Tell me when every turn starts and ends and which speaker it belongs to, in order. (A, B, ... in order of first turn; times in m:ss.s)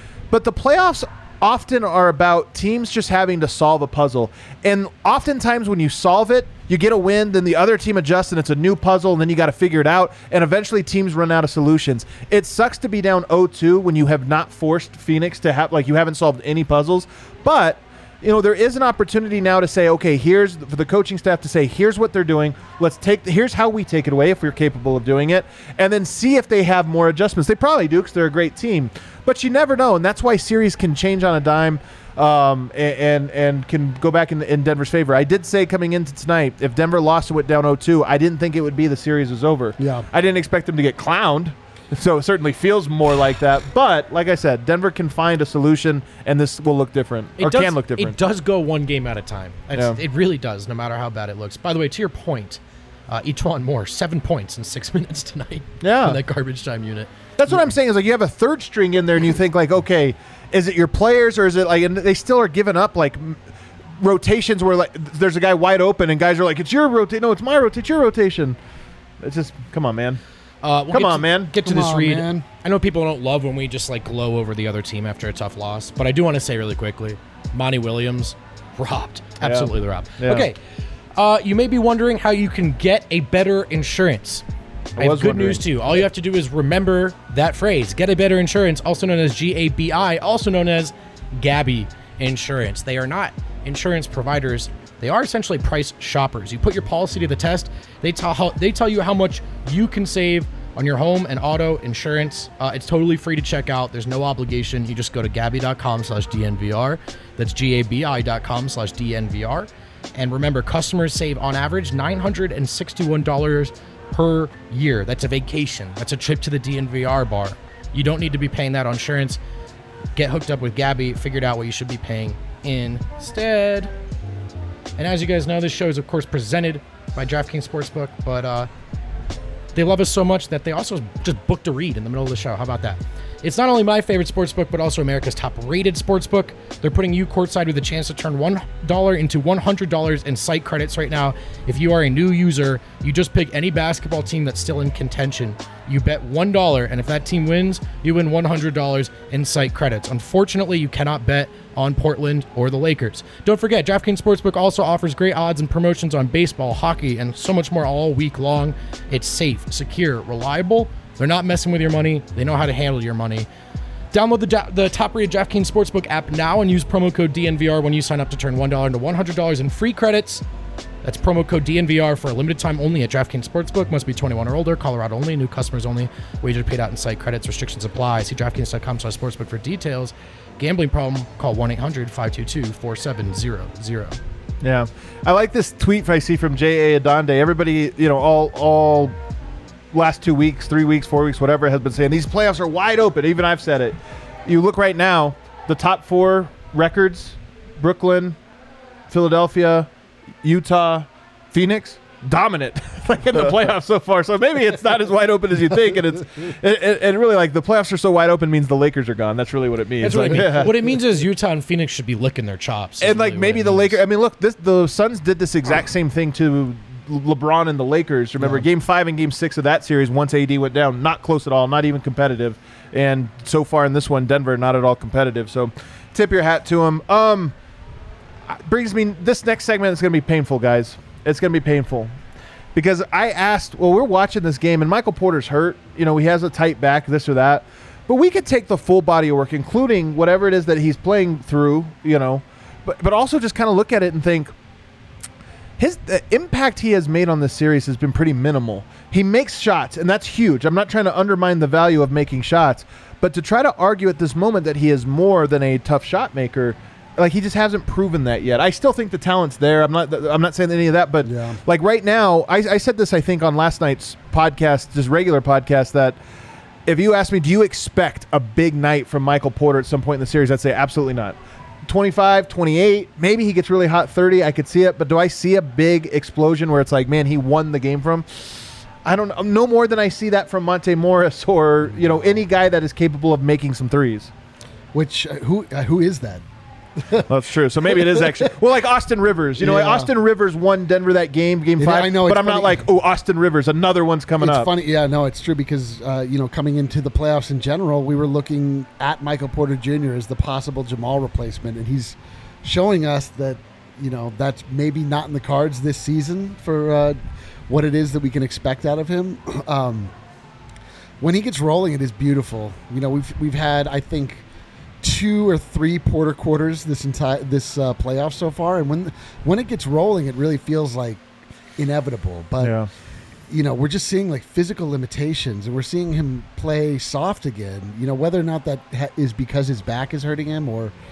0:00.3-0:48.2 A
0:39.8-0:40.0 B
0:47.4-0:57.1 C
0:49.7-0:50.0 A
0:55.8-0:56.2 A
0:57.4-1:03.4 A
1:04.0-1:08.6 A
1:09.2-1:10.2 A
1:10.6-1:20.6 C
1:10.9-1:11.5 A
1:11.6-1:12.4 B
1:19.4-1:20.5 A
1:21.2-1:24.4 C
1:25.0-1:26.0 A
1:25.0-1:59.4 C
2:00.1-2:03.9 C
2:05.0-2:08.7 C
2:09.7-2:43.5 C
2:44.1-2:50.4 C
2:51.0-3:04.2 C
3:04.6-3:09.2 A
3:09.9-3:18.4 A
3:19.1-3:19.9 A
3:20.4-3:30.8 A
3:30.0-3:34.0 C
3:33.0-3:47.5 A
3:48.5-3:52.1 A
3:52.7-4:04.5 A
4:05.8-4:26.2 A
4:21.2-4:21.6 B
4:26.8-4:44.3 A
4:44.9-4:46.4 B
4:47.0-4:47.3 B
4:47.3-4:54.7 A
4:47.9-4:48.4 B
4:49.6-4:50.1 B
4:51.8-4:52.8 B
4:54.4-5:07.2 B
5:07.7-5:10.1 B
5:11.2-5:14.4 B
5:15.0-5:21.2 B
5:21.8-5:22.8 B
5:22.6-5:22.9 A
5:23.5-5:30.9 B